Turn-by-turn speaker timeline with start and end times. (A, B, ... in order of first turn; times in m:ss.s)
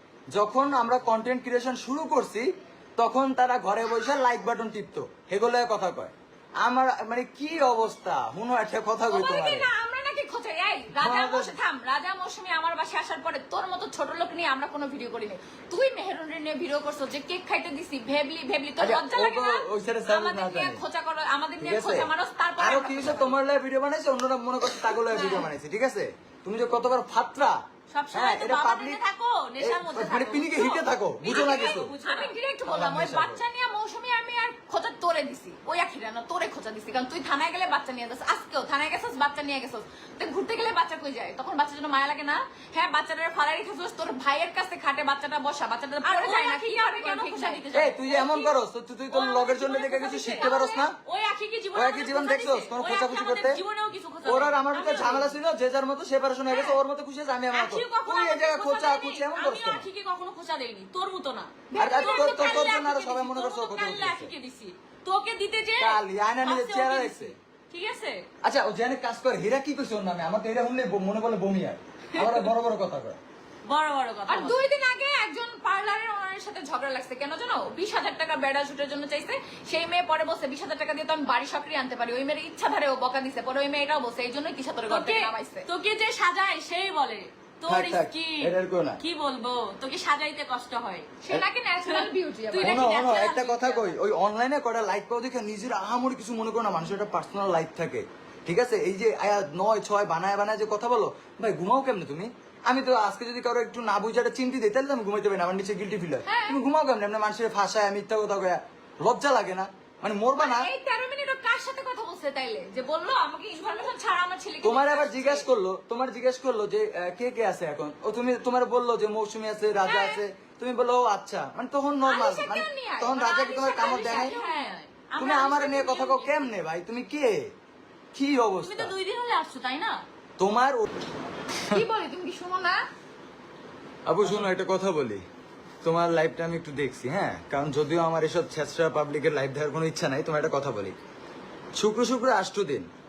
0:00.3-0:09.7 A
0:09.1-0:23.4 B
0:11.0-0:11.5 A
0:18.8-0:20.8 A
0:21.6-0:27.6 A
0:24.9-0:25.5 B
0:27.9-0:32.4 C
0:28.1-0:29.0 A
0:29.6-0:31.9 A
0:31.3-0:47.6 B
0:32.6-0:33.4 A
0:46.0-0:48.5 C
0:47.7-0:51.0 A
0:49.1-0:55.4 C
0:50.0-0:50.8 B
0:51.8-0:53.6 A
0:54.2-0:59.9 A
0:56.5-0:56.8 C
0:57.5-1:08.2 C
1:01.7-1:02.8 B
1:01.8-1:04.3 A
1:05.8-1:07.4 A
1:08.4-1:13.2 A
1:12.1-1:12.5 C
1:13.6-1:14.6 C
1:14.3-1:25.7 B
1:24.9-1:31.2 C
1:27.6-1:29.0 A
1:31.2-1:32.9 B
1:31.8-1:33.9 C
1:32.6-1:50.7 A
1:46.2-1:46.6 B
1:50.4-1:55.5 B
1:54.6-2:04.4 A
1:59.8-2:00.2 B
2:02.0-2:04.8 B
2:03.2-2:06.6 C
2:05.2-2:07.5 A
2:08.1-2:08.9 A
2:08.6-2:10.0 C
2:10.4-2:10.9 A
2:11.7-2:12.8 B
2:14.0-2:15.2 A
2:15.8-2:21.0 A
2:21.8-2:22.9 A